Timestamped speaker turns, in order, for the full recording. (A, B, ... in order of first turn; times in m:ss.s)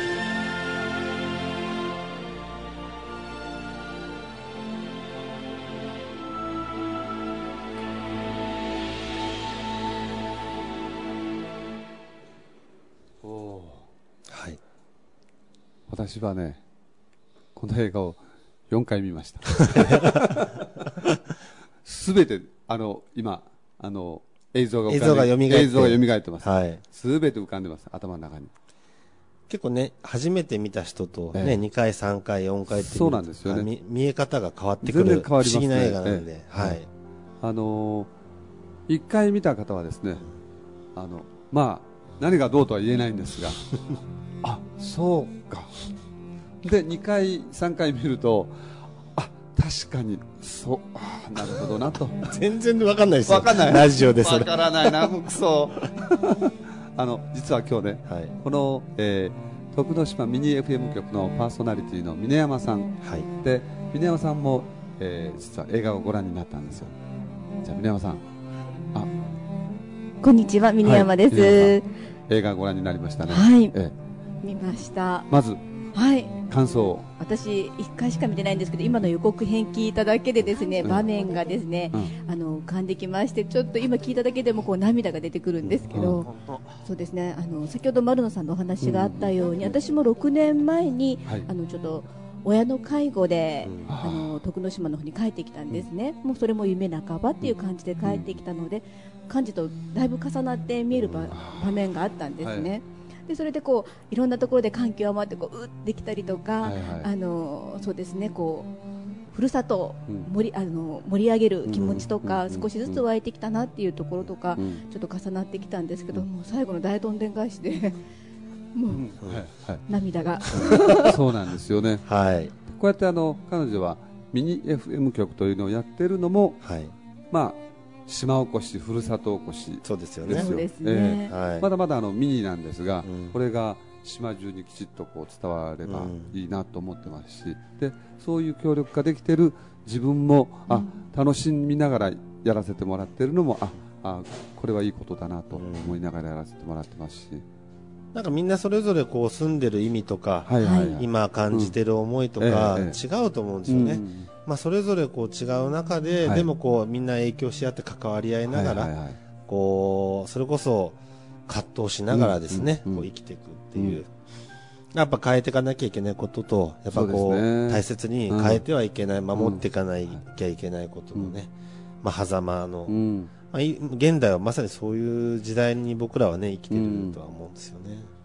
0:13.2-0:13.8 A
0:14.3-0:14.6 B
0:15.9-0:16.6 A
0:17.6-0:21.1 A
0:19.7-0:20.2 B
0:21.8-0:28.5 A
0:24.9-0:26.8 B
0:29.5-0:36.9 B
0:31.3-0:31.6 A
0:32.7-0:33.7 A
0:34.8-0:36.8 A
0:37.4-0:38.1 A
0:38.9-0:40.2 A
0:41.0-0:43.6 A
0:44.4-0:45.7 A
0:46.6-0:52.2 A
0:52.2-0:55.2 B
0:53.3-1:06.9 A
0:55.8-0:56.3 B
0:58.0-0:58.3 B
1:03.0-1:03.3 B
1:07.6-1:08.2 A
1:10.2-1:11.9 C
1:10.8-1:11.8 A
1:12.3-1:13.9 A
1:13.3-1:13.7 C
1:14.4-1:15.3 C
1:15.3-1:15.6 A
1:15.9-1:16.4 C
1:16.5-1:17.1 A
1:17.2-1:26.3 C
1:25.6-1:26.6 B
1:25.9-1:26.2 A
1:26.8-1:48.7 C
1:28.8-1:29.4 A
1:33.6-1:34.0 B
1:33.9-1:34.4 A
1:38.0-1:38.3 A
1:41.0-1:41.3 B
1:41.3-1:41.8 A
1:42.4-1:42.7 A
1:46.6-1:47.1 A
1:49.3-1:58.0 C
1:51.7-1:52.1 B
1:51.8-1:53.0 A
1:54.5-1:54.8 A
1:58.7-1:59.1 C
1:58.9-1:59.8 A
1:59.8-2:01.1 C
2:00.6-2:02.0 A
2:02.0-2:02.5 B
2:02.7-2:06.6 A
2:06.6-2:06.9 B
2:07.3-2:27.4 A
2:09.8-2:10.5 B
2:10.3-2:11.3 C
2:11.3-2:11.7 B
2:13.0-2:13.3 B
2:15.8-2:16.3 B
2:20.7-2:21.0 C
2:25.5-2:26.0 B
2:28.1-2:38.9 B
2:30.5-2:31.7 A
2:30.6-2:30.9 C
2:32.4-2:33.0 A
2:33.7-2:34.3 A
2:38.5-2:39.2 A
2:39.4-2:44.1 B
2:42.1-2:43.1 A
2:43.7-2:44.0 A
2:44.9-2:51.5 B
2:46.9-2:48.6 A
2:49.3-2:50.2 A
2:52.0-2:53.0 B
2:52.9-2:53.3 A
2:53.5-2:58.1 B
2:56.7-2:57.2 A